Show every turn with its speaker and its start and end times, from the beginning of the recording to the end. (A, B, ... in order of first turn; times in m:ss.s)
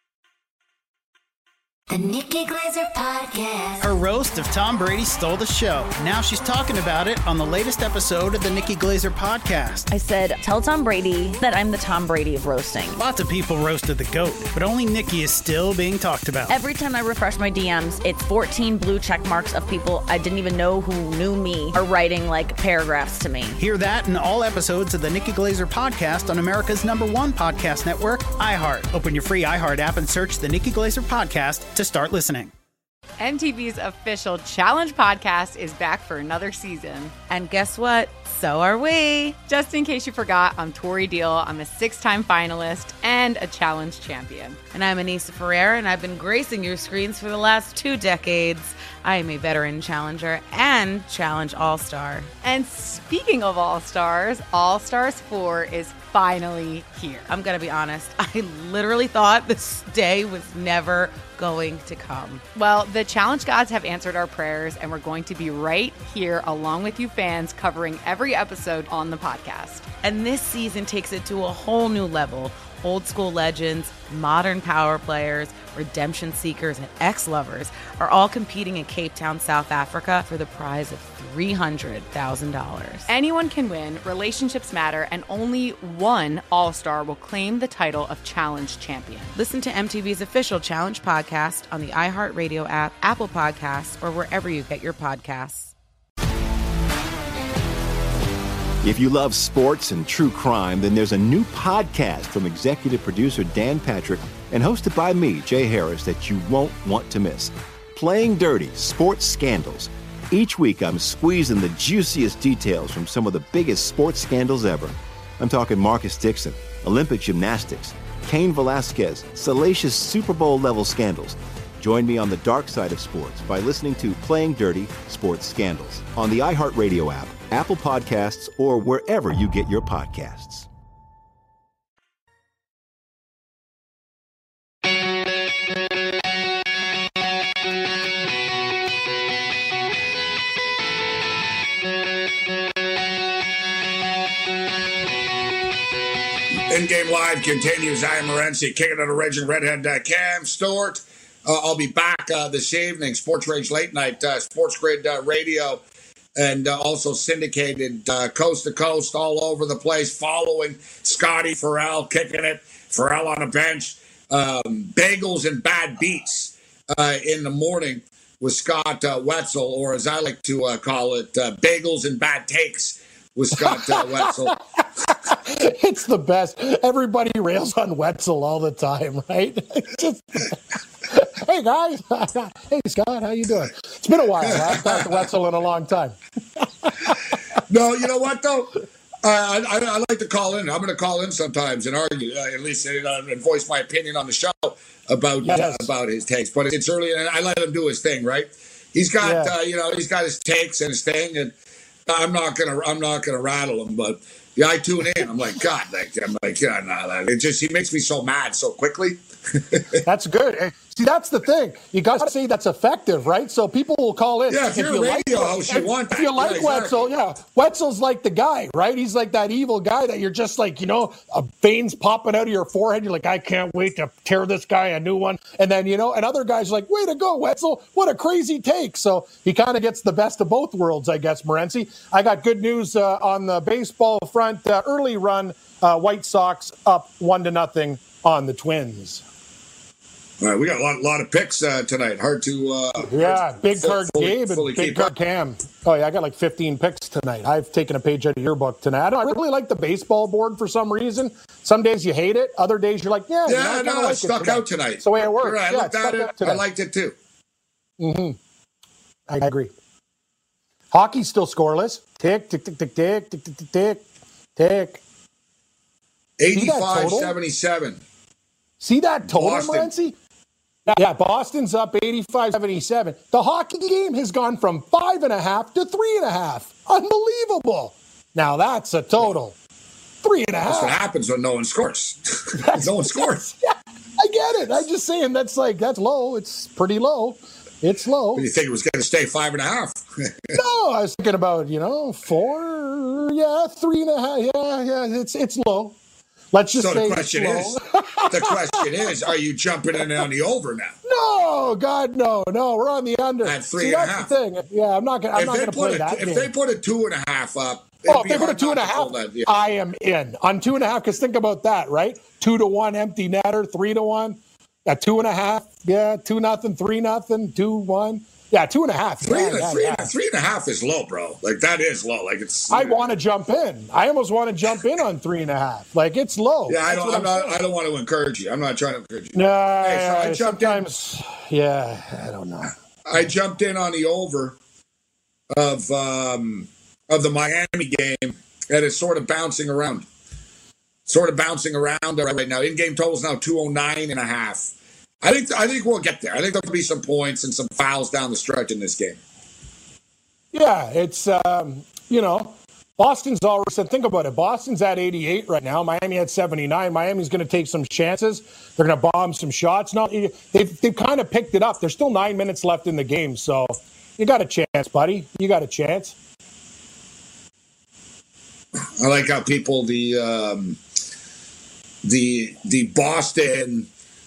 0:01.9-0:03.4 A
0:03.8-0:09.9 B
0:09.9-0:13.0 A
0:13.0-0:16.6 B
0:16.5-0:23.6 A
0:23.6-0:32.5 B
0:33.2-0:37.1 C
0:37.3-0:39.4 D
0:39.4-0:44.6 C
0:44.7-0:52.3 D
0:52.4-0:57.3 C
0:57.3-1:02.4 D
1:02.6-1:09.9 C
1:10.0-1:23.1 D
1:23.1-1:29.4 C
1:29.4-1:35.7 D
1:38.8-2:10.7 E
2:26.7-2:35.8 F
2:36.4-2:54.6 F
2:53.6-3:07.4 G
3:04.5-3:05.2 F
3:07.7-3:21.5 F
3:15.4-3:15.9 G
3:19.2-3:19.5 G
3:22.1-3:29.9 F
3:30.0-3:59.2 G
3:34.5-3:37.1 F
4:00.4-4:05.1 F
4:03.0-4:16.6 G
4:13.5-4:17.2 F
4:18.0-4:18.4 G
4:19.3-4:19.7 G
4:20.9-4:24.0 G
4:24.6-4:25.0 G
4:26.4-4:28.0 F
4:26.5-4:27.3 G
4:28.8-4:30.2 G
4:29.3-4:29.9 F
4:30.9-4:39.6 G
4:40.2-4:40.9 G
4:40.7-4:43.4 F
4:42.6-4:48.4 G
4:48.4-4:50.6 F
4:50.5-4:56.0 G
4:56.5-4:58.9 G
4:56.8-4:57.8 F
4:58.3-5:01.0 F
5:01.1-5:06.5 G
5:03.4-5:04.3 F
5:05.3-5:09.5 F
5:08.1-5:20.1 G
5:19.2-5:23.0 F
5:22.7-5:27.6 G
5:26.7-5:30.8 F
5:29.3-5:32.7 G
5:33.0-5:34.6 F
5:35.5-5:40.1 F
5:41.1-5:44.7 F
5:45.2-5:49.2 F
5:50.5-6:06.2 G
6:09.0-6:10.8 F
6:12.0-6:13.9 F